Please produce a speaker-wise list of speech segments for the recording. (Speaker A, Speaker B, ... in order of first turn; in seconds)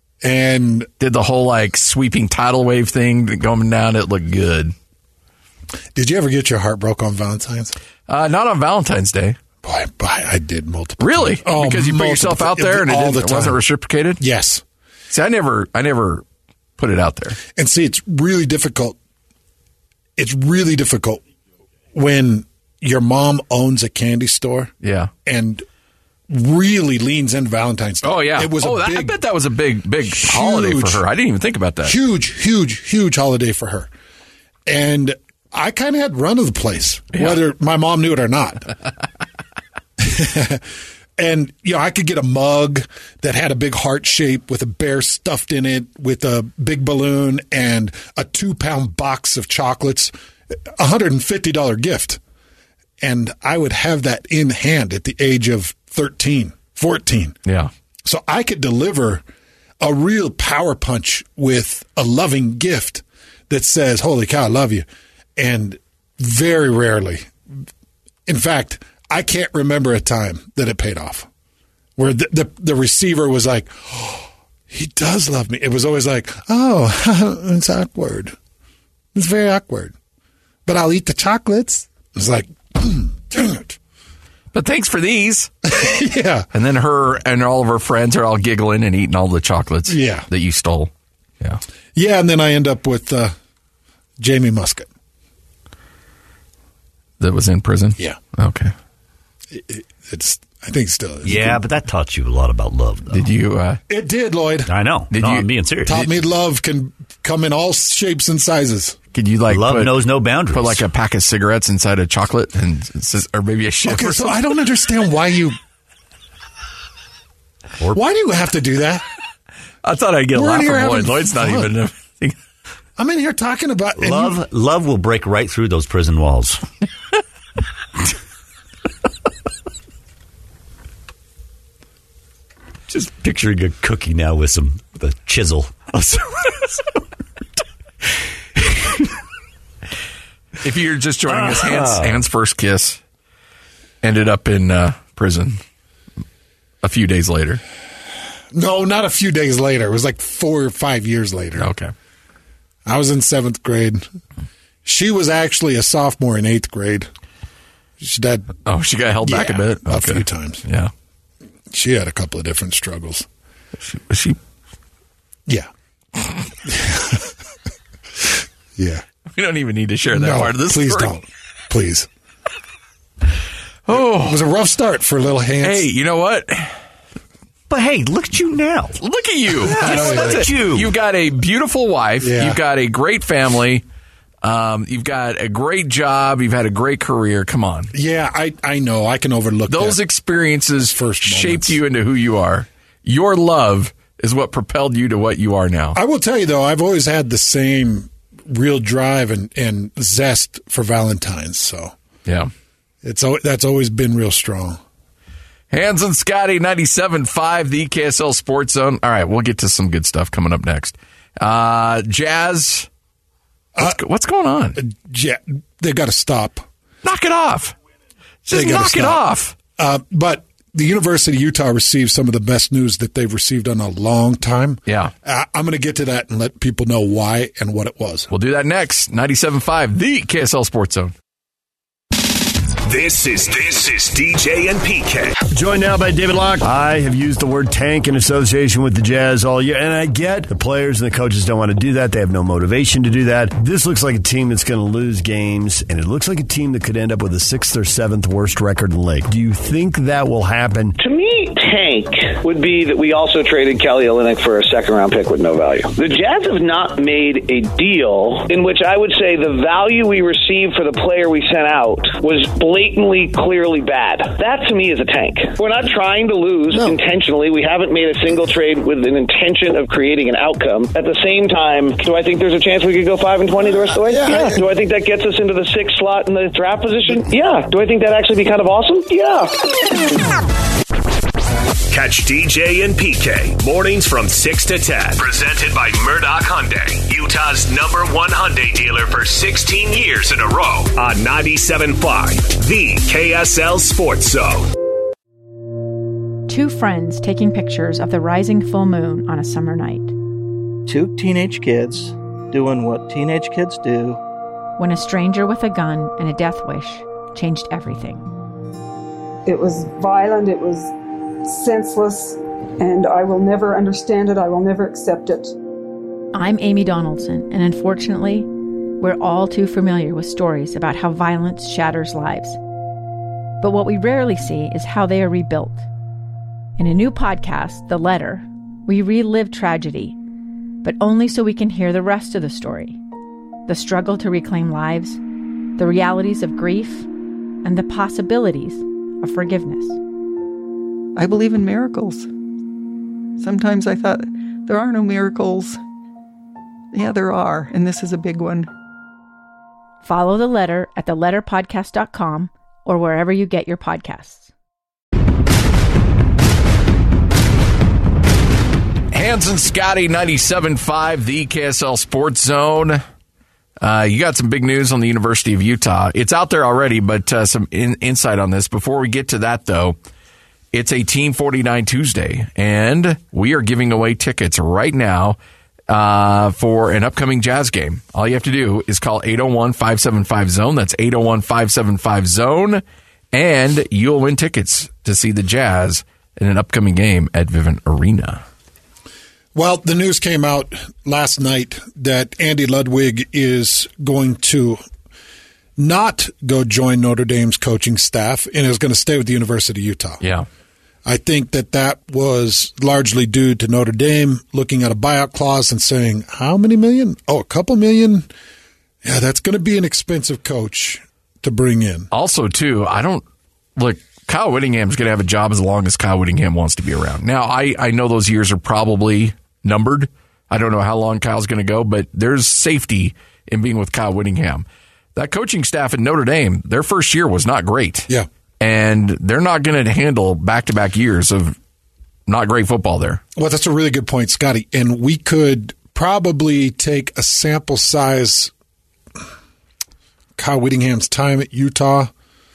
Speaker A: 0.2-0.9, 6.0-7.7, 9.6-13.6, 14.2-14.6, 17.6-19.0, 20.2-21.2, 21.9-24.7, 25.2-25.6, 26.3-29.2, 30.1-31.0, 31.8-33.9, 34.7-38.7, 40.0-50.1, 50.8-52.2, 53.0-57.4, 58.0-59.2, 59.8-67.3, 68.3-71.3, 72.0-78.4, 79.1-79.9, 80.7-83.8, 85.7-86.5, 89.9-90.3, 92.0-93.3, 94.2-94.9, 99.5-101.6, 103.9-104.7, 105.8-109.0, 113.8-115.6, 117.9-119.0, 120.3-121.7, 123.0-124.4, 148.5-151.7, 152.9-154.0, 154.8-157.1, 158.0-158.6, 159.2-160.6, 161.7-163.3, 166.6-167.3, 168.8-169.0, 170.1-172.1, 173.9-175.9, 179.8-180.5, 182.2-182.6, 187.9-190.0, 190.8-191.8, 195.9-201.9, 203.0-204.8, 214.8-216.7, 218.5-219.2, 219.8-228.3, 389.6-394.8, 395.8-400.2, 401.1-408.3, 409.0-412.1, 433.4-438.5, 440.4-442.1
Speaker B: 1.0-4.7, 8.1-9.4, 11.0-14.2, 15.1-16.2, 16.8-17.4, 24.8-25.1, 28.0-32.0, 84.5-85.5, 86.5-91.6, 97.2-98.7, 103.1-103.8, 105.1-105.5, 109.1-110.0, 110.5-114.4, 119.8-122.4, 140.6-143.0, 144.0-145.6, 146.8-147.6, 151.6-151.9, 158.7-160.9, 163.8-164.4, 169.3-171.1, 173.9-174.4, 175.6-176.7, 179.0-183.8, 184.4-187.9, 189.7-196.0, 202.3-202.5, 205.7-212.9, 213.8-214.8, 217.0-217.8, 218.5-219.6, 224.9-225.1, 228.3-231.1, 359.1-363.0, 363.8-370.0, 370.7-375.4, 375.9-382.8, 383.3-388.4, 412.1-413.2, 413.8-424.6, 425.2-428.1, 428.6-431.6, 432.3-433.2
Speaker C: 101.2-103.3, 104.7-106.1, 109.5-110.8, 124.0-126.6, 132.9-137.0, 138.6-139.0, 141.3-142.2, 177.7-179.0, 179.6-180.9
Speaker D: 232.8-235.3, 281.9-294.7
Speaker E: 235.5-250.9
Speaker F: 251.0-279.6
Speaker G: 296.5-300.1, 304.8-308.3, 316.3-318.5, 319.0-322.6, 323.6-325.9, 326.8-330.2, 330.8-333.0, 333.7-335.2, 335.8-337.1, 337.6-340.0, 350.0-354.5
Speaker H: 300.9-304.2
Speaker I: 309.5-310.9, 311.4-315.6
Speaker J: 341.2-342.3, 343.4-345.8, 346.9-348.7